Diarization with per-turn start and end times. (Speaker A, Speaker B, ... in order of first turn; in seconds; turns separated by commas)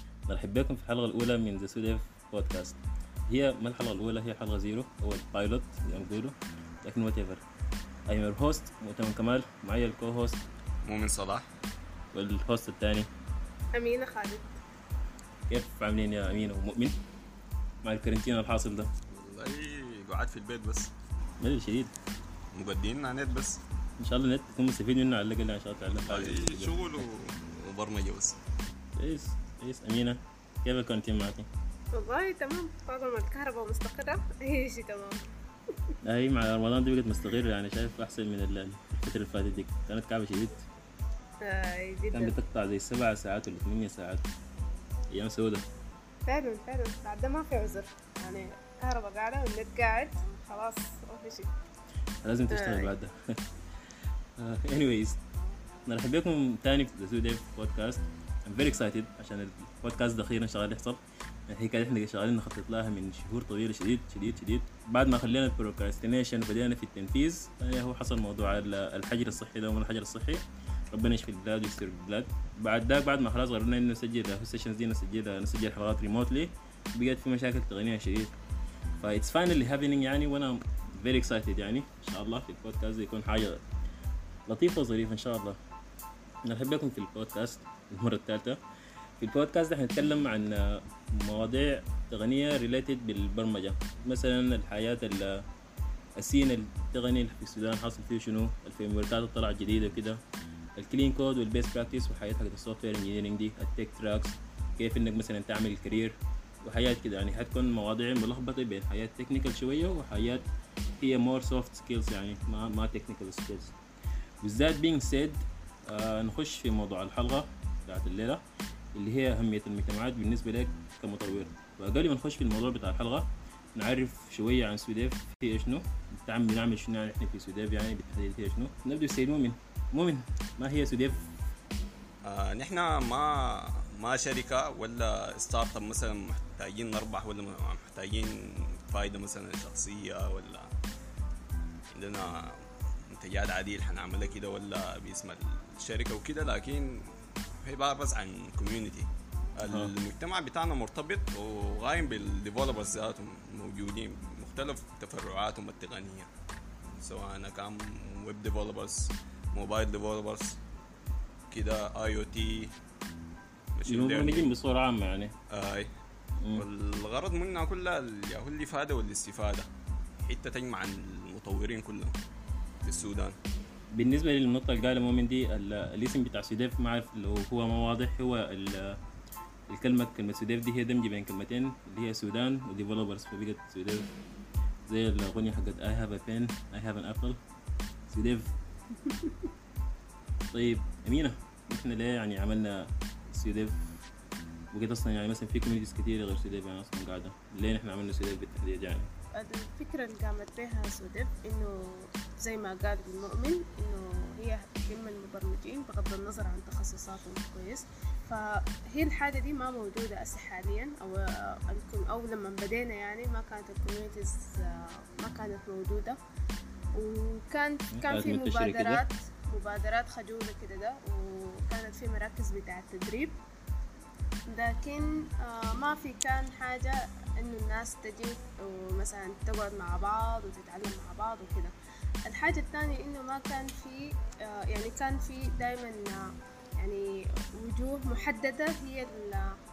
Speaker A: 0.3-2.8, Speaker A: 3.3-7.4, Speaker A: 8.1-10.4, Speaker B: 10.8-11.4, Speaker A: 12.1-13.1, Speaker C: 13.7-14.6, Speaker A: 15.5-17.0, Speaker A: 17.8-18.9, Speaker B: 19.1-20.9, Speaker A: 21.4-21.9, Speaker B: 22.5-23.6, Speaker A: 24.0-27.0, Speaker B: 26.0-28.4, Speaker A: 28.9-31.5, Speaker C: 31.9-35.2, Speaker A: 36.0-40.6, Speaker C: 41.4-42.3, Speaker A: 42.1-44.2, Speaker A: 45.1-45.6, Speaker C: 46.3-51.5, Speaker A: 52.2-53.4, Speaker C: 52.5-52.9, Speaker A: 54.4-55.2, Speaker A: 55.9-78.3, Speaker A: 79.0-83.6, Speaker A: 84.5-85.6, Speaker A: 86.4-88.6, Speaker A: 89.2-95.4, Speaker A: 96.2-100.2, Speaker A: 100.8-110.5, Speaker A: 111.0-113.7, Speaker A: 114.4-118.4, Speaker A: 118.9-131.2, Speaker B: 132.2-140.7, Speaker B: 141.9-156.3, Speaker A: 149.7-149.9, Speaker B: 156.9-160.6, Speaker B: 161.5-162.7, Speaker B: 163.7-164.5, Speaker A: 163.9-165.3, Speaker B: 165.5-165.9, Speaker B: 166.6-169.7, Speaker B: 170.2-172.2, Speaker B: 172.8-173.3, Speaker A: 173.9-179.0, Speaker A: 179.7-184.1, Speaker A: 184.9-187.4, Speaker A: 188.1-188.5, Speaker C: 189.0-189.3, Speaker A: 190.5-193.8, Speaker A: 194.7-199.1, Speaker C: 199.3-216.2, Speaker C: 216.9-223.3, Speaker A: 217.9-219.0, Speaker C: 224.5-231.7, Speaker C: 232.2-239.5